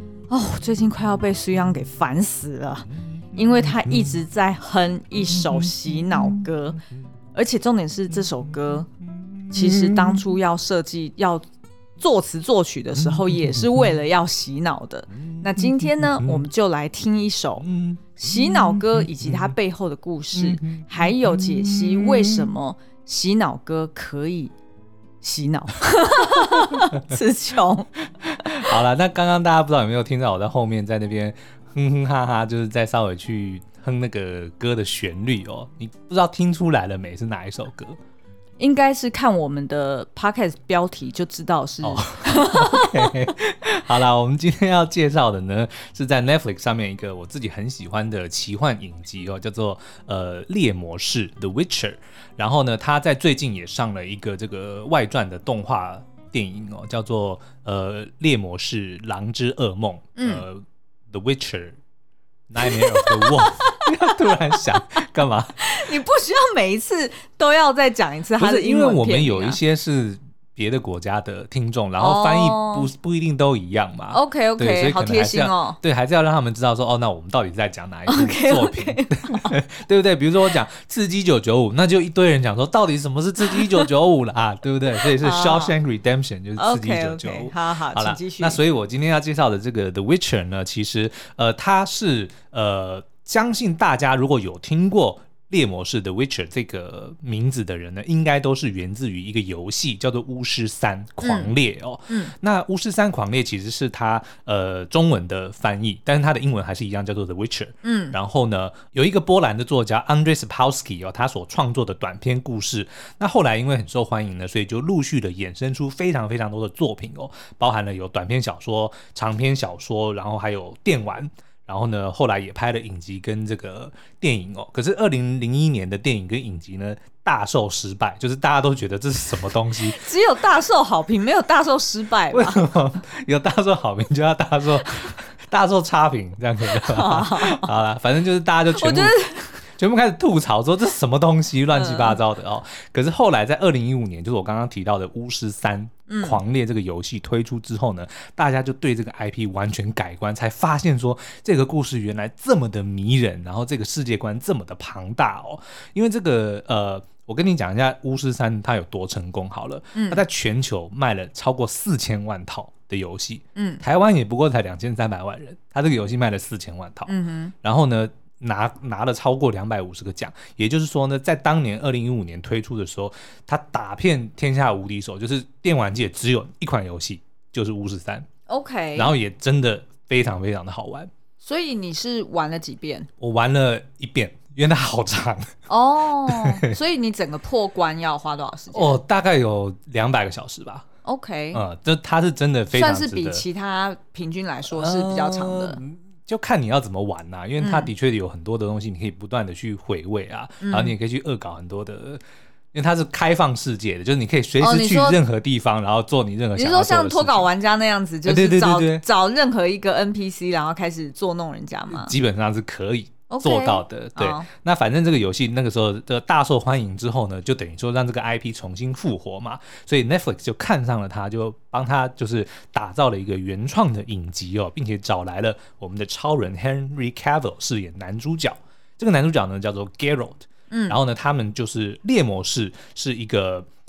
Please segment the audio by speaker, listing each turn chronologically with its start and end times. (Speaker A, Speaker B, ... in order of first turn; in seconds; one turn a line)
Speaker A: 0.3-6.8
Speaker B: 3.7-4.1
Speaker A: 7.3-8.9
Speaker B: 9.3-10.2
Speaker A: 9.5-11.4
Speaker A: 12.0-24.5
Speaker B: 13.0-13.9
Speaker B: 15.3-16.4
Speaker B: 17.6-19.5
Speaker B: 20.4-22.5
Speaker A: 25.2-27.9
Speaker B: 28.2-38.0
Speaker A: 28.4-28.7
Speaker A: 38.6-43.3
Speaker B: 41.8-61.8
Speaker A: 60.2-60.4
Speaker B: 62.5-65.7
Speaker A: 62.6-63.9
Speaker A: 65.6-69.6
Speaker B: 68.4-130.0
Speaker A: 72.0-72.9
Speaker A: 74.1-75.8
Speaker A: 78.1-79.5
Speaker A: 83.5-83.8
Speaker A: 85.0-85.7
Speaker A: 86.6-88.6
Speaker A: 101.2-101.5
Speaker A: 107.8-108.2
Speaker A: 129.8-132.7
Speaker B: 132.3-139.2
Speaker A: 136.7-137.7
Speaker A: 138.7-139.6
Speaker B: 139.8-167.1
Speaker A: 141.7-142.2
Speaker A: 146.1-146.4
Speaker A: 159.9-160.2
Speaker A: 163.6-163.8
Speaker A: 167.1-167.5
Speaker B: 167.6-178.3
Speaker A: 178.5-179.1
Speaker B: 178.9-181.1
Speaker A: 181.4-183.1
Speaker B: 183.2-185.5
Speaker A: 185.7-189.0
Speaker B: 186.3-186.7
Speaker B: 188.7-190.8
Speaker A: 191.0-191.6
Speaker B: 191.5-193.4
Speaker A: 192.7-195.8
Speaker B: 194.7-202.2
Speaker A: 197.6-197.9
Speaker A: 200.6-200.9
Speaker B: 202.7-207.5
Speaker A: 204.6-205.2
Speaker A: 206.5-212.1
Speaker B: 208.2-209.0
Speaker B: 211.9-233.7
Speaker A: 213.3-214.5
Speaker A: 230.7-231.0